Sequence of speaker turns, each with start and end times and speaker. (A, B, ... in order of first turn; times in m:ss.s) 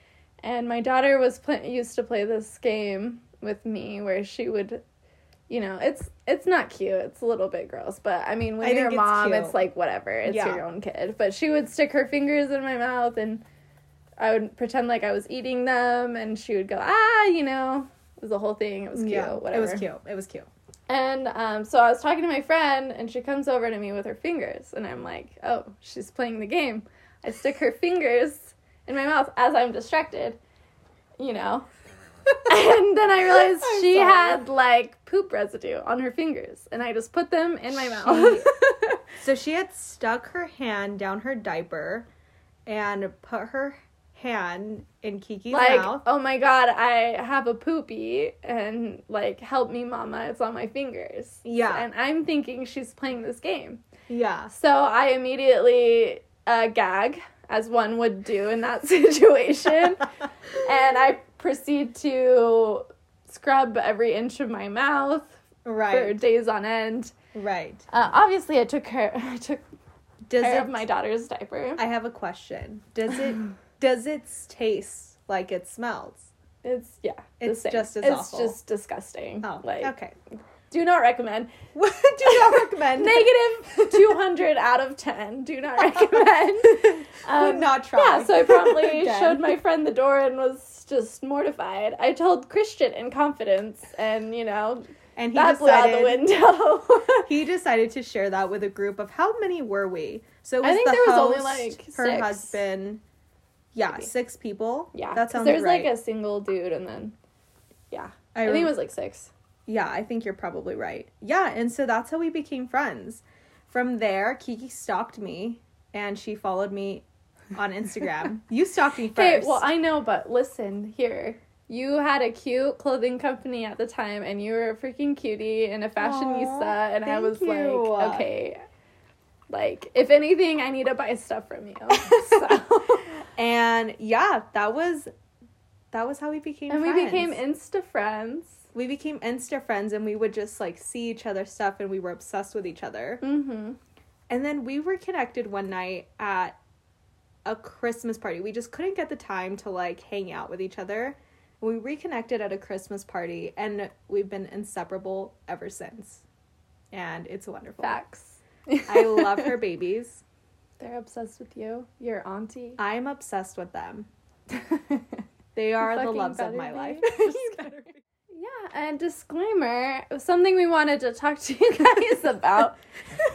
0:00.4-0:04.8 A
0:05.5-0:13.4 A
0:08.6-0:09.6 B
0:10.2-0:10.6 B
0:14.2-0:19.9 A
0:18.9-0:20.5 B
0:20.9-0:30.4 A
0:31.2-0:31.7 A
0:32.5-0:39.0 A
0:33.3-0:34.5 B
0:37.7-0:38.5 B
0:39.2-0:42.1 B
0:42.7-0:46.0 B
0:45.5-0:53.8 A
0:51.4-0:51.9 B
0:54.1-0:54.5 B
0:54.5-1:07.1 A
1:05.6-1:06.2 B
1:07.3-1:07.9 B
1:07.9-1:09.6 A
1:10.3-1:10.8 B
1:10.4-1:11.8 A
1:11.8-1:16.3 B
1:16.6-1:19.9 A
1:17.4-1:18.6 B
1:19.4-1:20.2 B
1:20.7-1:21.6 A
1:21.8-1:24.2 B
1:22.3-1:37.3 A
1:26.8-1:29.6 B
1:35.2-1:36.3 B
1:37.3-1:43.0 B
1:40.6-1:42.6 A
1:43.7-1:45.9 B
1:44.9-1:47.1 A
1:47.9-1:49.3 A
1:48.4-1:48.8 B
1:49.7-1:59.6 B
1:59.1-2:08.6 A
2:06.0-2:08.3 B
2:09.5-2:13.1 A
2:13.2-2:15.1 B
2:15.9-2:17.4 B
2:16.7-2:18.6 A
2:18.7-2:23.2 B
2:23.2-2:23.8 A
2:24.3-2:26.6 B
2:27.5-2:36.2 B
2:36.9-2:38.0 B
2:37.8-2:39.6 A
2:38.9-2:40.2 B
2:40.8-2:42.8 A
2:42.8-2:44.1 B
2:44.7-2:45.0 A
2:45.6-2:48.0 B
2:45.8-2:47.7 A
2:48.3-2:52.8 A